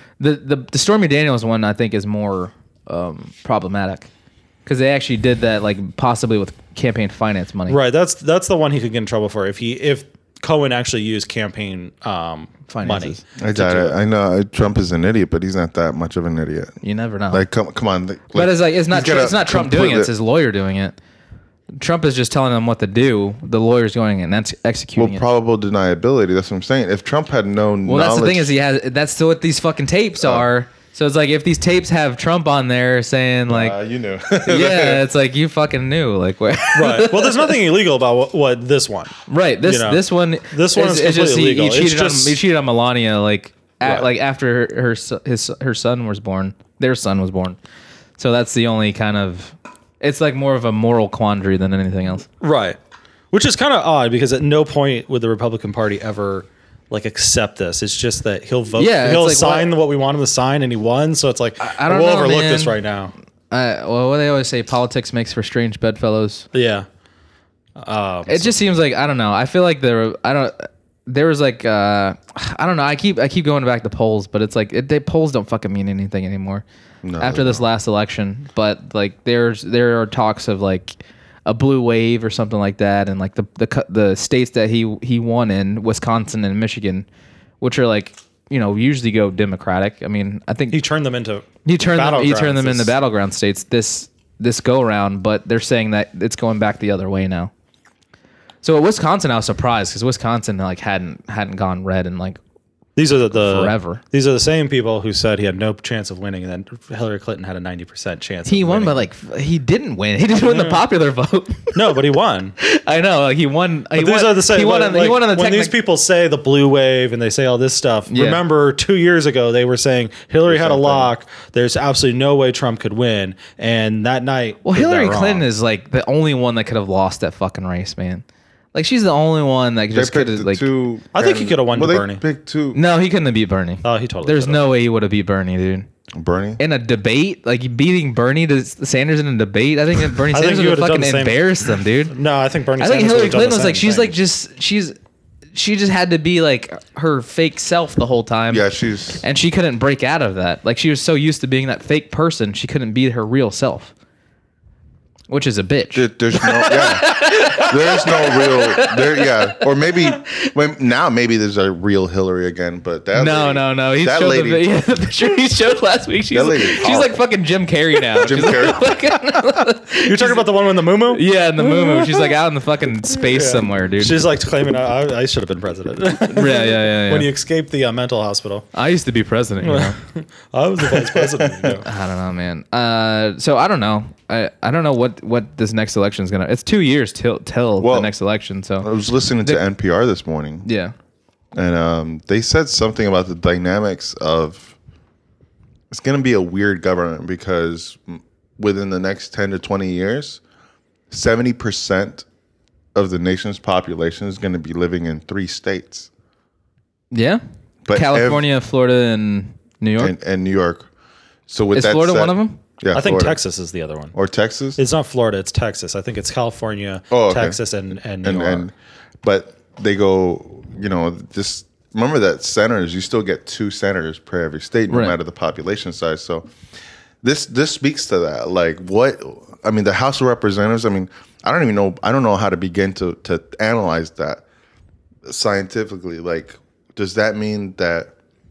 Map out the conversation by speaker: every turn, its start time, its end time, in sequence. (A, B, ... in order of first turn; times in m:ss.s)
0:00.2-0:04.1 A
0:04.6-0:07.8 A
0:07.7-0:13.8 B
0:12.7-0:13.2 A
0:13.4-0:16.8 C
0:16.8-0:17.4 A
0:17.3-0:20.1 C
0:18.3-0:21.0 A
0:21.7-0:25.2 A
0:25.0-0:28.5 C
0:27.8-0:33.8 A
0:30.2-0:30.5 C
0:33.5-0:35.0 C
0:34.4-0:37.5 A
0:36.7-0:42.4 B
0:39.3-0:47.6 A
0:48.2-0:52.2 A
0:52.4-0:52.8 B
0:53.3-1:03.1 B
0:58.8-0:59.7 A
1:01.6-1:02.8 A
1:03.5-1:06.4 A
1:06.5-1:06.8 B
1:07.8-1:08.6 B
1:08.3-1:16.6 A
1:17.0-1:17.6 C
1:17.2-1:27.0 A
1:27.6-1:30.8 A
1:30.7-1:32.9 B
1:31.6-1:37.5 A
1:38.6-1:42.4 A
1:43.0-1:49.0 B
1:43.3-1:44.0 A
1:48.4-1:51.9 A
1:50.4-1:50.8 B
1:51.7-1:52.5 B
1:52.6-1:55.7 A
1:53.9-2:05.5 B
1:58.1-1:58.4 A
2:00.5-2:01.1 C
2:04.6-2:10.6 A
2:09.9-2:12.8 C
2:11.1-2:12.2 B
2:12.7-2:15.9 A
2:13.8-2:14.6 B
2:16.1-2:16.6 C
2:16.6-2:22.1 A
2:20.3-2:21.4 B
2:22.1-2:24.2 B
2:22.8-2:24.9 A
2:25.5-2:28.6 A
2:28.5-2:29.2 C
2:29.2-2:33.9 A
2:35.3-2:39.3 A
2:35.9-2:44.6 C
2:43.1-2:54.2 A
2:46.3-2:47.2 C
2:48.2-2:49.0 C
2:50.0-2:52.3 B
2:53.1-2:58.7 B
2:56.3-2:57.3 A
2:58.7-3:00.0 A
2:59.6-3:01.9 B
3:01.1-3:01.8 C
3:01.8-3:08.9 A
3:07.8-3:08.1 C
3:08.8-3:10.6 C
3:10.6-3:10.9 A
3:11.5-3:14.8 C
3:15.9-3:20.4 C
3:21.1-3:22.2 C
3:22.9-3:26.1 C
3:27.1-3:30.1 A
3:27.8-3:28.4 C
3:30.0-3:30.9 C
3:31.5-3:33.4 C
3:31.7-3:32.6 A
3:32.9-3:34.2 B
3:34.1-3:34.8 C
3:34.8-3:38.7 B
3:37.1-3:37.6 C
3:38.2-3:38.7 C
3:39.2-3:46.5 C
3:44.9-3:45.2 A
3:47.2-3:54.4 C
3:55.2-3:58.1 C